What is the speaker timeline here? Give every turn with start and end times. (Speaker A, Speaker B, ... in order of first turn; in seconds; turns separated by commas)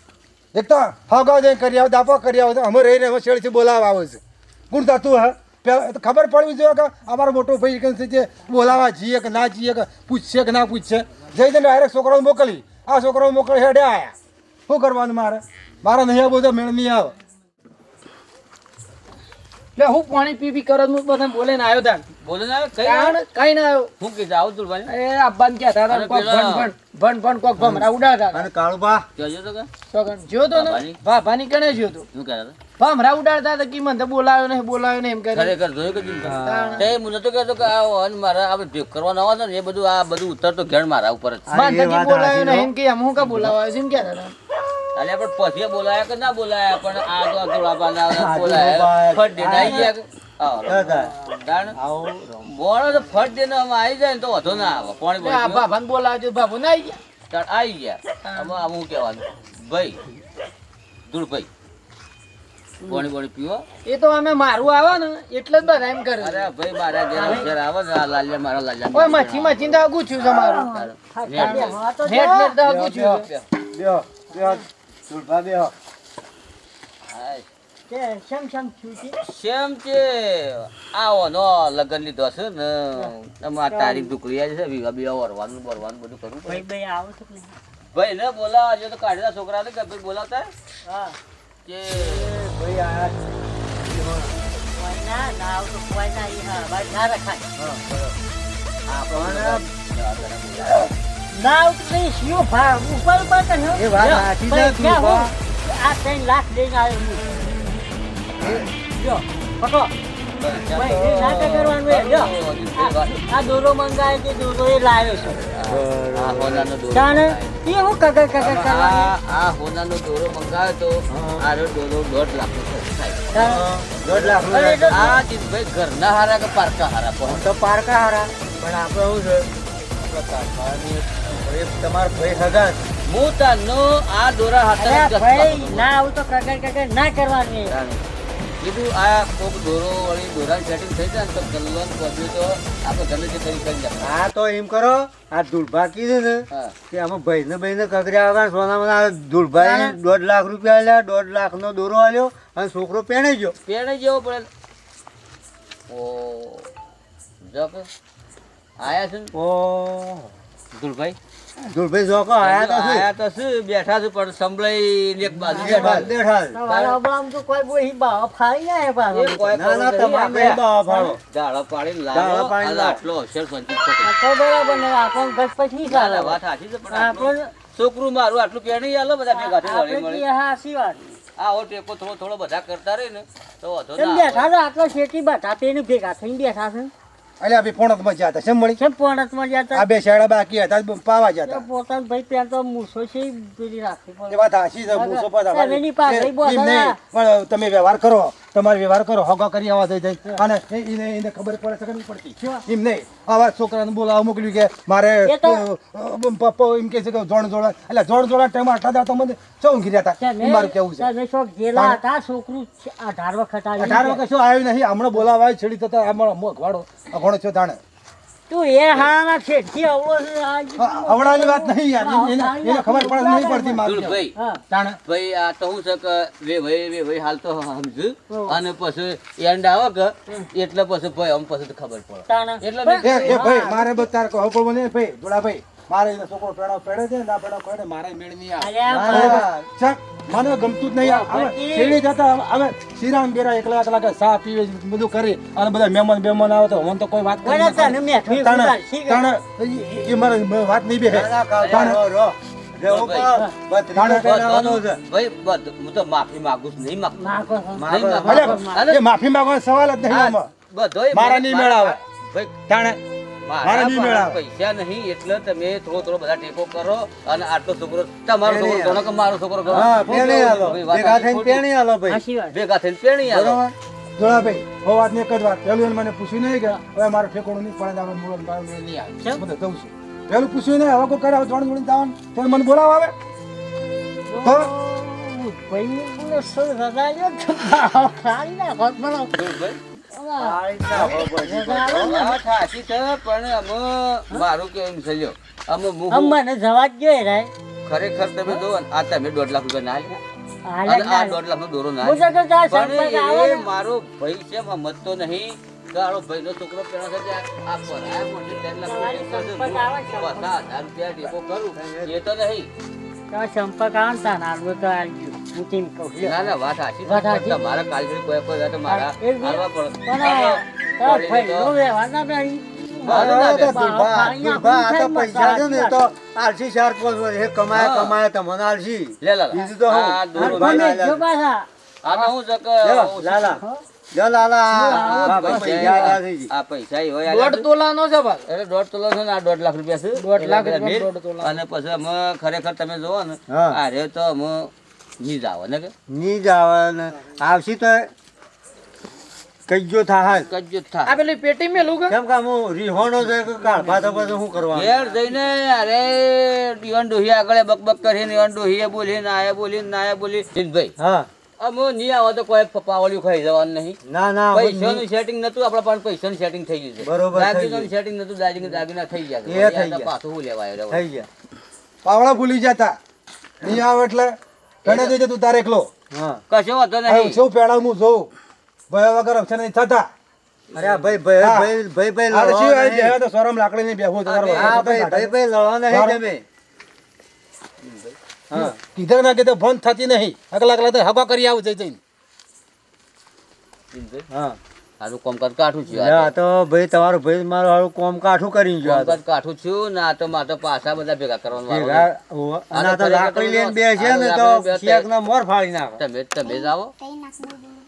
Speaker A: 0.5-4.2, Speaker A: 4.7-14.1, Speaker A: 14.7-17.1, Speaker B: 19.8-22.0, Speaker C: 22.2-23.2, Speaker B: 22.8-23.9, Speaker C: 24.0-24.9, Speaker B: 24.9-28.5, Speaker C: 25.9-26.7, Speaker D: 27.6-29.1, Speaker C: 29.1-29.7, Speaker B: 29.9-32.1, Speaker C: 30.5-31.0, Speaker C: 32.1-32.6, Speaker B: 32.8-35.5, Speaker C: 35.3-41.5, Speaker D: 36.2-36.9, Speaker B: 36.4-36.9, Speaker D: 41.5-42.7, Speaker B: 41.5-44.3, Speaker C: 44.9-51.8, Speaker D: 48.1-49.9, Speaker D: 50.6-51.1, Speaker D: 51.8-52.5, Speaker C: 52.4-55.7, Speaker B: 55.2-57.0, Speaker C: 57.3-60.0, Speaker B: 58.2-58.5, Speaker C: 61.1-61.5, Speaker C: 62.8-63.6, Speaker B: 63.8-66.5, Speaker C: 66.2-71.8, Speaker E: 67.1-67.5, Speaker B: 68.9-70.7, Speaker E: 70.3-72.6, Speaker B: 71.4-73.3, Speaker D: 72.6-75.7, Speaker E: 74.3-74.6, Speaker C: 77.1-77.5, Speaker E: 77.9-79.2, Speaker C: 79.2-86.6, Speaker E: 83.7-84.1, Speaker E: 86.5-87.6, Speaker C: 87.9-90.5, Speaker E: 90.8-91.2, Speaker C: 91.6-92.3, Speaker D: 92.2-93.2, Speaker D: 93.8-94.3, Speaker E: 94.7-97.5, Speaker D: 97.6-98.1, Speaker C: 98.9-100.9, Speaker D: 99.1-99.6, Speaker E: 101.3-107.2, Speaker D: 103.7-105.3, Speaker D: 108.4-108.7, Speaker E: 108.9-109.9, Speaker C: 110.4-113.3, Speaker E: 110.7-115.4, Speaker C: 115.5-117.6, Speaker D: 115.7-116.7, Speaker E: 116.9-119.1, Speaker C: 118.4-123.3, Speaker D: 121.1-121.4, Speaker E: 123.3-123.6, Speaker D: 123.3-125.2, Speaker E: 124.5-125.1, Speaker C: 124.9-127.5, Speaker D: 127.2-132.8, Speaker C: 133.1-135.9, Speaker E: 134.8-137.7, Speaker C: 137.7-138.0, Speaker C: 138.6-144.2, Speaker D: 144.0-153.6, Speaker E: 149.6-149.9, Speaker C: 153.6-154.5, Speaker C: 155.9-156.7, Speaker C: 157.4-157.9, Speaker C: 158.8-159.3, Speaker D: 159.3-160.3, Speaker C: 160.7-161.2, Speaker D: 161.6-163.1, Speaker C: 162.4-166.1, Speaker D: 165.5-166.6, Speaker E: 165.5-169.5, Speaker C: 166.7-167.0, Speaker C: 169.1-174.1, Speaker D: 169.5-171.2, Speaker D: 172.1-173.0, Speaker E: 174.0-177.5, Speaker C: 175.8-180.2, Speaker E: 179.3-181.0, Speaker C: 181.2-184.5, Speaker E: 184.0-186.9, Speaker A: 187.4-188.8, Speaker E: 188.8-189.8, Speaker A: 189.7-191.6, Speaker E: 191.4-197.0, Speaker A: 194.3-211.1, Speaker E: 205.2-205.6, Speaker E: 210.2-214.2, Speaker A: 211.7-212.0, Speaker A: 213.8-217.8, Speaker E: 218.5-224.6, Speaker A: 220.8-225.0, Speaker C: 223.8-224.3, Speaker C: 225.1-233.4, Speaker E: 228.3-228.6, Speaker E: 232.3-234.0, Speaker A: 233.0-252.0, Speaker E: 238.6-239.5, Speaker D: 238.9-239.6, Speaker E: 241.0-242.0, Speaker E: 247.4-249.2, Speaker D: 251.1-255.0, Speaker C: 251.6-252.0, Speaker C: 252.8-253.3, Speaker A: 253.9-254.3, Speaker C: 254.2-259.0, Speaker E: 257.2-258.9, Speaker D: 257.7-258.6, Speaker A: 258.3-260.5, Speaker C: 260.1-262.6, Speaker A: 261.1-262.0, Speaker A: 262.7-263.0, Speaker C: 263.4-271.7, Speaker A: 263.6-264.4, Speaker D: 268.4-269.0, Speaker D: 269.7-272.2, Speaker E: 272.1-272.6, Speaker C: 272.5-273.6, Speaker D: 273.2-273.7, Speaker A: 274.2-283.1, Speaker E: 284.3-289.3, Speaker A: 284.4-284.7, Speaker C: 289.3-289.8, Speaker E: 290.1-292.4, Speaker D: 290.4-292.2, Speaker C: 292.0-296.4, Speaker E: 296.1-297.5, Speaker C: 297.9-300.2, Speaker E: 300.6-301.4, Speaker C: 300.9-312.7, Speaker E: 302.0-303.7, Speaker E: 308.8-310.5, Speaker D: 311.7-312.1, Speaker E: 313.3-316.5, Speaker C: 316.2-321.7, Speaker E: 317.1-317.6, Speaker E: 318.9-326.0, Speaker C: 323.0-323.8, Speaker D: 323.0-331.2, Speaker C: 327.7-328.2, Speaker C: 329.2-330.9, Speaker E: 330.4-331.7, Speaker C: 332.0-333.6, Speaker B: 332.1-332.3, Speaker D: 332.8-333.6, Speaker D: 334.1-336.5, Speaker C: 334.9-337.7, Speaker E: 334.9-335.6, Speaker B: 337.2-338.4, Speaker C: 338.5-345.9, Speaker B: 340.1-341.6, Speaker D: 343.5-343.8, Speaker D: 346.1-348.1, Speaker D: 349.7-350.5, Speaker C: 350.5-351.2, Speaker B: 351.1-352.2, Speaker D: 352.1-354.9, Speaker C: 354.7-360.9, Speaker D: 361.0-361.3, Speaker C: 361.6-364.0, Speaker D: 364.1-365.0, Speaker C: 364.5-371.1, Speaker D: 367.0-367.9, Speaker D: 369.4-370.1, Speaker D: 370.9-371.3, Speaker A: 372.0-373.0, Speaker A: 373.6-375.9, Speaker C: 374.8-375.2, Speaker D: 376.1-376.4, Speaker C: 376.5-377.4, Speaker A: 377.1-378.3, Speaker A: 378.9-380.1, Speaker C: 380.7-381.1, Speaker D: 380.7-383.2, Speaker A: 381.4-381.7, Speaker A: 382.3-385.3, Speaker C: 384.2-384.9, Speaker D: 384.6-386.4, Speaker A: 385.9-386.2, Speaker C: 387.8-388.1, Speaker D: 388.5-388.8, Speaker A: 388.5-392.0, Speaker C: 393.9-394.2, Speaker D: 394.3-394.6, Speaker C: 395.0-396.3, Speaker D: 395.9-399.2, Speaker C: 398.8-402.1, Speaker D: 401.7-406.0, Speaker C: 402.7-405.1, Speaker C: 406.0-406.9